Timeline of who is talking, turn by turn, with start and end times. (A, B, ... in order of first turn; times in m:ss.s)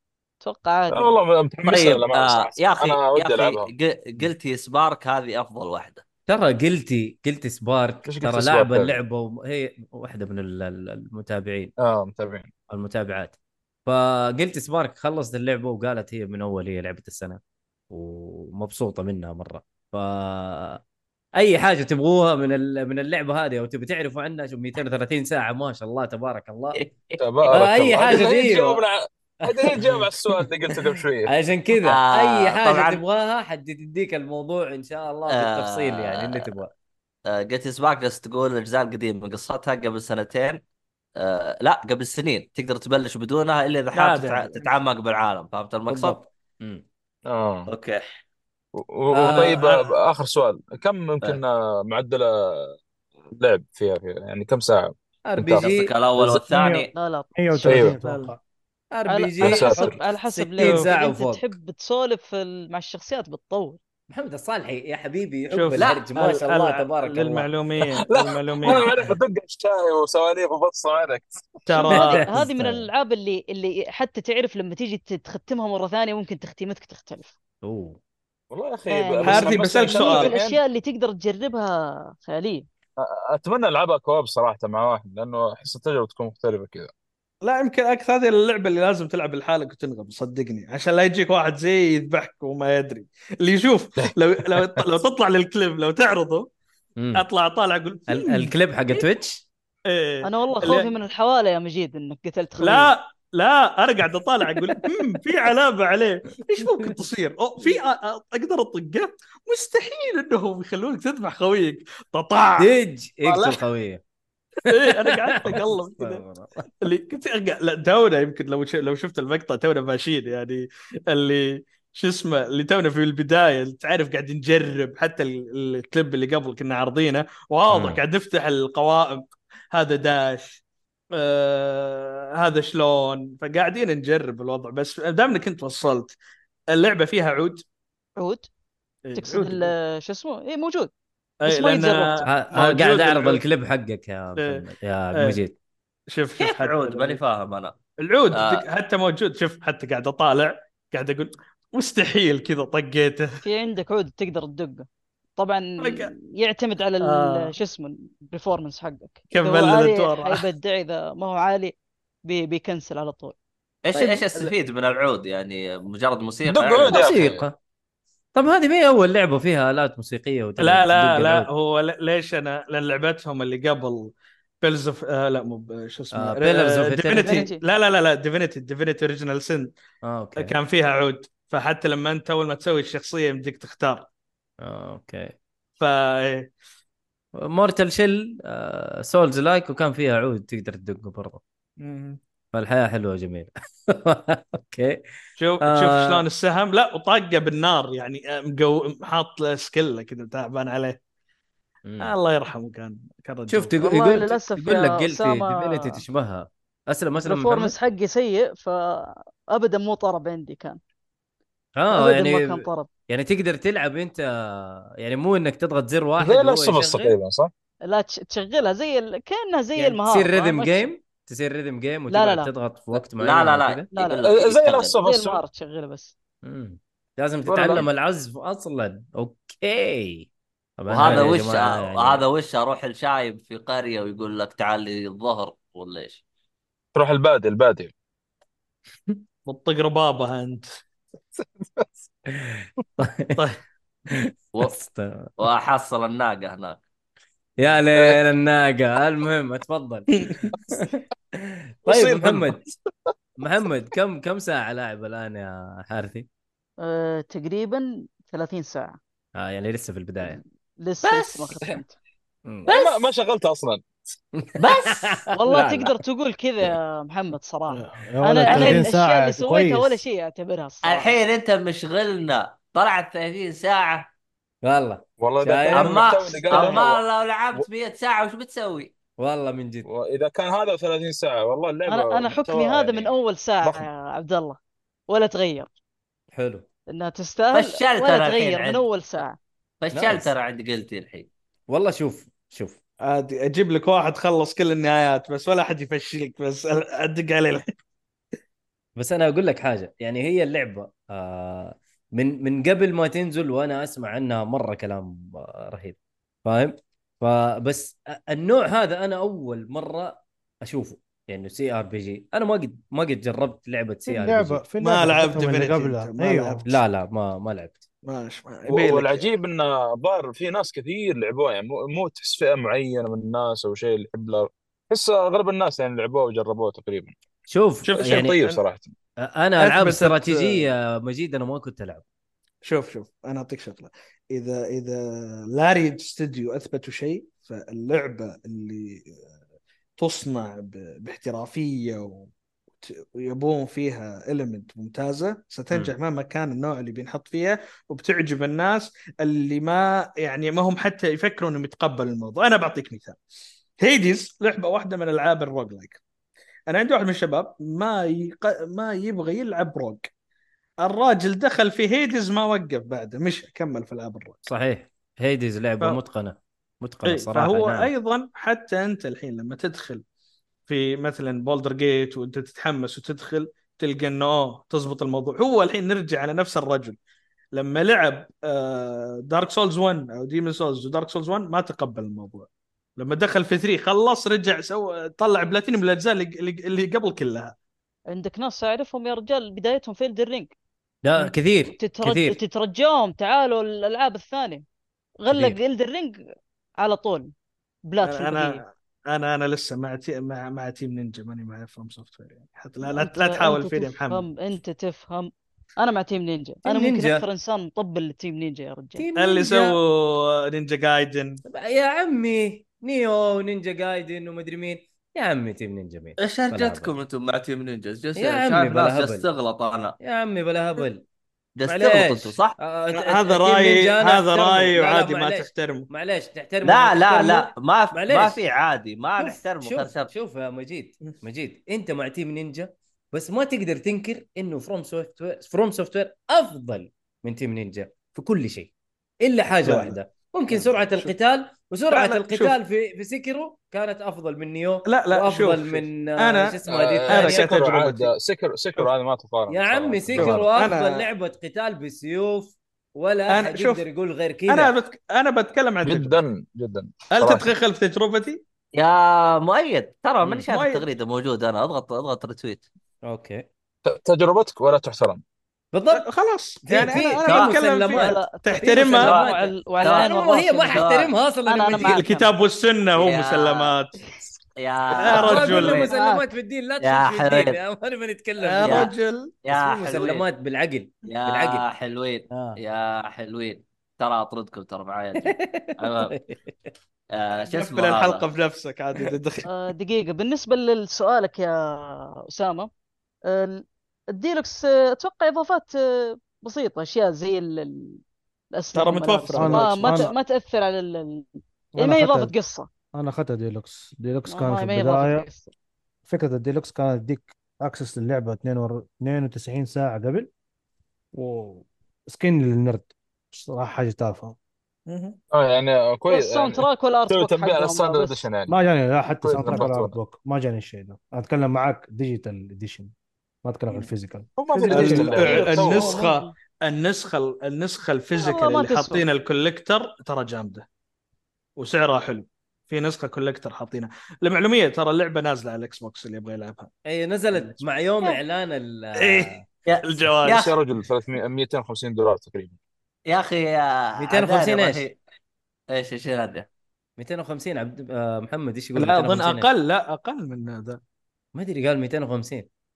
0:00.4-0:01.2 A
0:00.9-0:03.7 B
0:01.7-0:06.0 C
0:06.3-0:11.7 D
0:08.0-0:09.0 B
0:11.8-0:12.5 B
0:12.7-0:17.4 D
0:17.9-0:20.8 D
0:21.4-0:26.8 D
0:26.8-0:27.2 C
0:27.2-0:31.3 B
0:27.5-0:28.8 D
0:29.4-0:30.1 D
0:31.3-0:36.7 D
0:31.8-0:33.0 C
0:35.3-0:36.5 C
0:37.3-0:40.6 C
0:41.2-0:46.2 C
0:43.9-0:44.7 E
0:45.9-0:46.8 D
0:47.3-0:47.7 B
0:47.7-0:48.0 C
0:48.7-0:52.8 B
0:49.1-0:49.6 D
0:53.3-0:56.5 B
0:55.3-0:55.9 D
0:55.6-0:56.9 C
0:56.6-0:56.8 F
0:57.0-0:57.8 A
0:57.3-0:58.4 F
0:57.6-0:58.0 B
0:58.0-0:58.3 E
0:58.9-1:01.5 D
0:59.1-1:03.8 A
0:59.4-0:59.9 B
1:00.6-1:00.9 E
1:04.1-1:07.5 D
1:05.5-1:09.0 E
1:05.8-1:06.0 C
1:07.9-1:11.6 B
1:11.7-1:12.3 E
1:11.7-1:17.3 A
1:11.9-1:12.9 D
1:17.6-1:18.0 D
1:18.5-1:20.6 B
1:18.9-1:22.7 A
1:19.2-1:20.3 E
1:23.0-1:26.9 B
1:27.4-1:36.5 E
1:37.0-1:37.2 D
1:37.2-1:38.5 E
1:38.1-1:39.4 D
1:39.9-1:40.9 E
1:40.2-1:42.9 A
1:42.6-1:52.7 E
1:52.6-1:54.0 D
1:53.3-1:53.6 E
1:54.6-1:56.2 E
1:54.6-1:56.7 D
1:56.8-2:10.6 E
2:07.7-2:08.0 D
2:11.2-2:16.2 E
2:16.7-2:17.6 E
2:18.2-2:18.5 A
2:19.0-2:19.7 E
2:19.2-2:20.9 A
2:21.4-2:23.4 E
2:21.5-2:22.3 A
2:22.2-2:25.6 D
2:26.1-2:27.2 E
2:26.4-2:27.8 C
2:28.0-2:33.4 E
2:28.3-2:28.6 C
2:33.4-2:41.7 A
2:35.8-2:36.1 E
2:37.0-2:37.5 E
2:39.3-2:40.5 E
2:42.3-2:43.4 A
2:43.8-2:47.3 C
2:46.5-2:47.4 B
2:46.9-2:47.6 D
2:48.3-2:51.5 D
2:50.6-2:59.7 E
2:56.1-2:57.5 D
2:57.1-2:57.6 A
3:00.0-3:00.5 D
3:00.4-3:04.1 E
3:04.6-3:05.4 D
3:05.8-3:06.5 E
3:07.4-3:11.4 D
3:11.8-3:12.2 E
3:12.5-3:15.0 D
3:15.4-3:21.0 E
3:15.6-3:16.2 D
3:21.8-3:22.1 D
3:22.0-3:23.8 E
3:23.5-3:27.8 D
3:23.8-3:26.0 A
3:27.2-3:30.8 A
3:31.8-3:37.2 D
3:31.9-3:32.9 A
3:36.2-3:37.5 B
3:37.9-3:40.9 A
3:39.8-3:43.9 D
3:42.1-3:42.5 A
3:43.2-3:45.0 C
3:43.9-3:44.2 A
3:44.2-3:45.4 B
3:45.0-3:46.1 A
3:46.4-3:52.2 D
3:47.5-3:47.9 B
3:50.9-3:56.2 C
3:57.0-3:57.9 B
3:59.5-4:00.7 E
4:02.3-4:03.4 D
4:04.1-4:05.4 D
4:05.4-4:06.8 C
4:07.6-4:10.1 D
4:10.2-4:10.5 E
4:10.6-4:12.7 D
4:11.9-4:12.5 B
4:13.4-4:16.3 D
4:16.8-4:19.0 A
4:19.4-4:20.4 D
4:20.3-4:22.0 A
4:21.0-4:21.8 C
4:22.6-4:23.8 B
4:24.4-4:26.0 D
4:24.6-4:25.2 C
4:25.4-4:31.2 A
4:27.7-4:30.0 F
4:28.5-4:28.8 D
4:30.8-4:34.1 C
4:34.6-4:36.1 D
4:35.2-4:37.0 B
4:35.7-4:38.9 C
4:39.2-4:39.9 D
4:39.8-4:43.1 B
4:41.9-4:44.6 A
4:45.1-4:45.7 A
4:46.3-4:46.7 D
4:46.9-4:49.4 A
4:47.5-4:48.8 C
4:49.8-4:51.3 C
4:49.9-4:50.3 D
4:51.7-4:52.8 D
4:53.0-4:57.7 E
4:59.0-5:14.6 D
5:14.1-5:16.7 F
5:14.8-5:16.8 E
5:16.7-5:17.8 D
5:18.0-5:19.3 E
5:18.7-5:27.2 B
5:27.5-5:28.3 D
5:27.9-5:28.6 E
5:28.0-5:28.9 B
5:29.2-5:32.0 D
5:29.6-5:30.7 E
5:32.6-5:39.2 E
5:40.0-5:53.2 E
5:53.8-5:56.0 E
5:56.7-6:00.1 E
6:00.8-6:04.4 E
6:04.5-6:07.9 D
6:07.1-6:10.0 E
6:10.7-6:17.0 E
6:17.5-6:27.6 E
6:28.1-6:30.6 A
6:31.0-6:32.4 D
6:31.7-6:34.6 A
6:35.2-6:36.2 A
6:35.3-6:35.6 D
6:36.8-6:37.3 A
6:37.9-6:38.6 A
6:38.0-6:44.2 E
6:42.8-6:49.1 A
6:46.6-6:47.3 D
6:49.0-6:49.8 D
6:49.2-6:51.4 E
6:51.4-6:56.9 D
6:56.2-7:00.0 C
6:58.2-6:59.3 D
7:00.0-7:01.0 D
7:01.6-7:02.6 C
7:01.7-7:08.4 D
7:02.9-7:05.9 E
7:06.6-7:10.1 C
7:09.2-7:18.7 D
7:19.2-7:27.5 D
7:19.6-7:20.0 E
7:20.5-7:21.1 E
7:21.9-7:22.6 E
7:24.9-7:28.1 E
7:26.7-7:30.5 B
7:29.5-7:34.7 D
7:30.2-7:31.1 E
7:33.3-7:33.8 E
7:34.5-7:36.2 E
7:35.8-7:37.5 B
7:37.1-7:38.4 E
7:38.7-7:42.7 C
7:40.2-7:40.5 D
7:40.5-7:40.8 E
7:43.0-7:43.5 D
7:43.8-7:45.2 B
7:45.7-7:46.0 D
7:45.9-7:49.1 E
7:46.6-7:52.0 D
7:47.2-7:47.6 C
7:47.9-7:50.9 A
7:48.8-7:51.1 C
7:51.4-7:52.3 A
7:51.7-7:54.0 E
7:53.0-7:53.8 C
7:54.6-7:55.9 C
7:54.9-7:55.9 E
7:55.0-7:58.9 D
7:55.8-7:56.3 A
7:56.8-7:57.6 C
7:58.4-7:59.3 E
7:58.6-7:58.9 C
7:59.4-8:00.3 C
7:59.5-8:01.6 D
8:01.0-8:06.1 C
8:02.3-8:02.6 D
8:05.2-8:06.7 D
8:07.1-8:08.3 C
8:07.5-8:09.5 E
8:09.5-8:12.7 A
8:13.3-8:18.0 A
8:18.5-8:22.7 A
8:18.8-8:20.1 E
8:19.3-8:20.1 F
8:21.8-8:22.3 F
8:22.9-8:25.3 F
8:24.3-8:25.5 A
8:26.1-8:30.3 F
8:31.1-8:34.4 F
8:34.9-8:35.2 E
8:35.3-8:38.6 B
8:36.1-8:38.3 A
8:38.5-8:42.9 F
8:39.2-8:40.0 B
8:43.4-8:45.3 F
8:44.4-8:46.1 B
8:44.7-8:50.7 E
8:45.2-8:46.3 A
8:48.2-8:49.0 A
8:51.6-8:56.7 E
8:56.9-8:59.4 D
8:59.0-9:00.5 E
8:59.7-9:00.5 C
9:00.3-9:02.6 B
9:03.1-9:05.0 C
9:04.0-9:04.8 D
9:05.7-9:06.5 C
9:07.0-9:09.5 D
9:08.8-9:10.8 E
9:11.4-9:12.5 D